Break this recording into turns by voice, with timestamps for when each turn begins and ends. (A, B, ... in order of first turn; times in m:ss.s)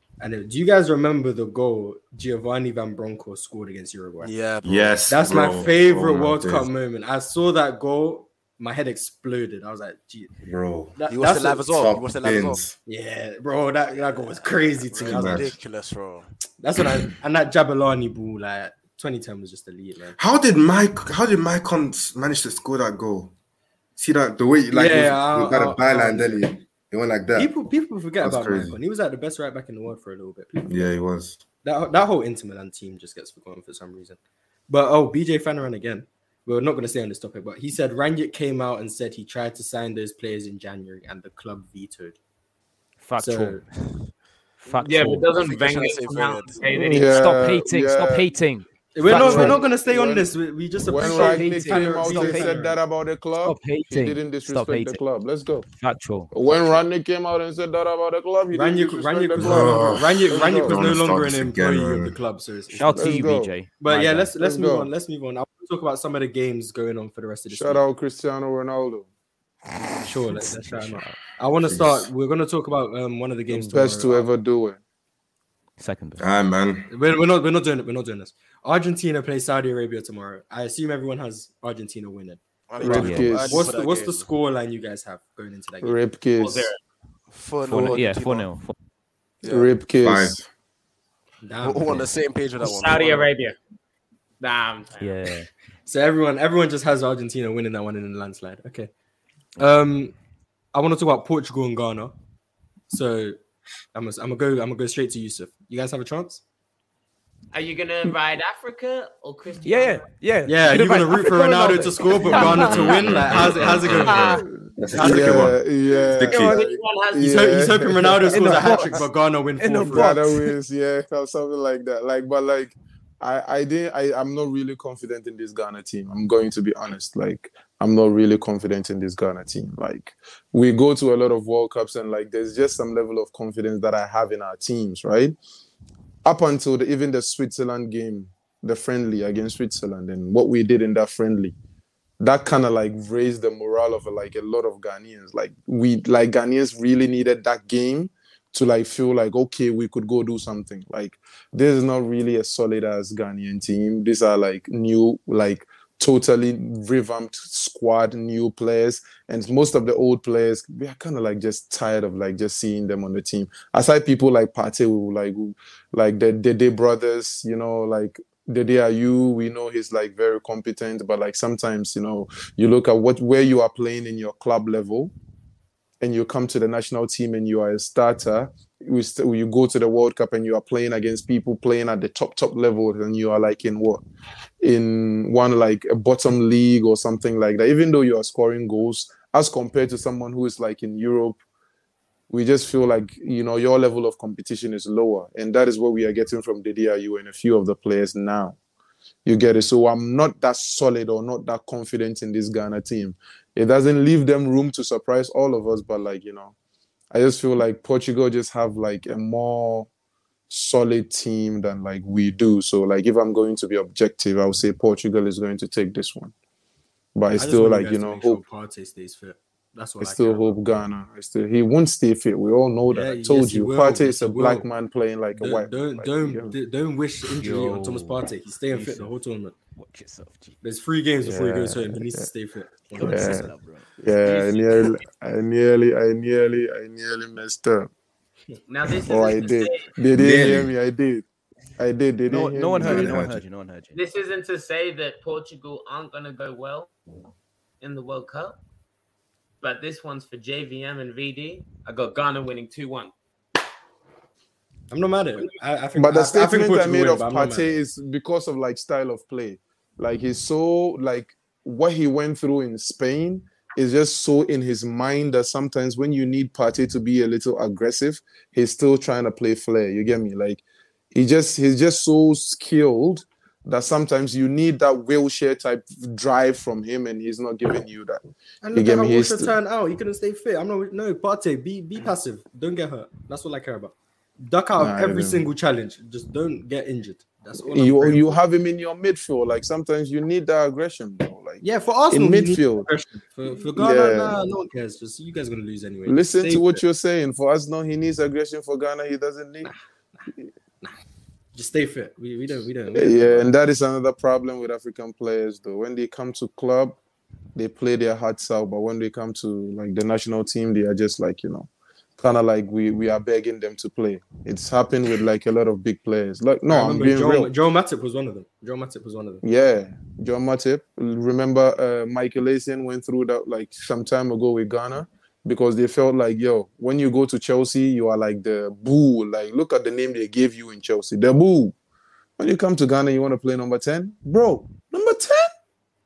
0:00.2-0:04.3 A
0:04.2-0:05.0 B
0:04.6-0:06.7 C
0:05.1-0:10.3 A
0:10.4-0:11.0 C
0:11.0-0:11.7 A
0:11.1-0:12.6 B
0:11.7-0:12.7 C
0:12.8-0:15.5 A
0:14.0-0:14.4 B
0:14.9-0:16.3 B
0:15.0-0:15.6 C
0:16.6-0:20.2 A
0:20.2-0:23.3 C
0:24.0-0:27.5 C
0:24.7-0:26.5 A
0:27.3-0:30.9 A
0:28.2-0:28.8 C
0:30.6-0:31.4 C
0:31.6-0:42.2 A
0:43.0-0:44.0 D
0:43.2-0:43.6 A
0:44.6-0:45.3 D
0:44.8-0:47.4 E
0:44.9-0:47.0 B
0:46.7-0:48.3 F
0:46.9-0:49.6 D
0:48.9-0:52.8 A
0:49.0-0:50.3 F
0:50.8-0:55.7 F
0:51.0-0:52.6 D
0:53.4-0:55.0 D
0:55.8-0:56.8 D
0:56.3-1:00.8 F
0:58.5-1:03.2 A
0:59.4-1:02.2 C
1:02.7-1:04.3 D
1:03.0-1:03.5 F
1:03.8-1:07.8 A
1:04.4-1:04.9 F
1:07.5-1:09.1 F
1:10.0-1:14.3 A
1:10.3-1:11.2 D
1:11.6-1:12.1 C
1:13.5-1:13.8 D
1:13.7-1:14.8 F
1:15.8-1:16.2 D
1:16.2-1:16.9 C
1:16.9-1:26.0 A
1:22.7-1:24.3 B
1:22.8-1:23.8 F
1:22.9-1:23.4 D
1:25.8-1:26.7 F
1:26.4-1:26.8 E
1:27.3-1:28.5 B
1:27.6-1:28.7 D
1:29.4-1:29.7 B
1:29.4-1:30.4 F
1:30.0-1:30.5 C
1:31.4-1:32.1 A
1:31.6-1:33.3 B
1:32.6-1:33.6 E
1:34.4-1:35.3 E
1:35.0-1:35.5 D
1:35.8-1:38.9 A
1:39.6-1:40.1 A
1:40.7-1:42.1 A
1:42.9-1:43.4 A
1:43.9-1:46.4 A
1:47.5-1:50.1 E
1:49.6-1:52.7 D
1:50.4-1:54.4 A
1:51.2-1:52.8 E
1:52.2-1:56.6 C
1:54.0-1:54.4 E
1:54.9-1:55.5 A
1:55.0-1:58.7 F
1:56.3-1:57.4 E
1:57.2-2:00.2 A
1:58.3-1:59.0 D
1:59.6-2:00.5 D
1:59.8-2:15.4 F
2:16.2-2:21.5 F
2:22.2-2:55.1 F
2:56.0-3:04.0 F
3:04.6-3:11.4 F
3:12.3-3:18.6 F
3:19.2-3:26.5 F
3:27.1-3:29.9 F
3:30.5-3:36.3 F
3:37.1-3:38.4 F
3:37.3-3:40.6 A
3:40.0-3:46.6 F
3:42.9-3:44.7 A
3:45.3-3:49.5 A
3:47.4-3:49.1 D
3:49.7-3:50.6 D
3:50.6-3:53.4 A
3:51.2-3:52.3 F
3:52.9-3:54.8 D
3:53.0-3:57.9 F
3:54.2-3:54.8 E
3:58.7-3:59.9 E
3:59.0-4:01.2 F
4:00.2-4:00.7 C
4:01.8-4:03.2 F
4:02.3-4:04.0 D
4:02.8-4:03.4 C
4:03.9-4:06.9 E
4:07.8-4:08.6 E
4:09.6-4:13.1 E
4:14.9-4:17.7 A
4:16.0-4:38.2 F
4:38.6-4:48.4 A
4:38.7-4:39.5 F
4:44.8-4:45.5 F
4:47.7-4:52.9 F
4:51.6-4:56.8 A
4:53.7-4:54.4 F
4:56.0-4:59.7 F
4:59.6-5:00.2 A
5:01.5-5:03.5 A
5:02.9-5:07.0 F
5:07.6-5:17.5 F
5:16.7-5:19.4 A
5:19.4-5:31.7 F
5:32.4-5:35.5 F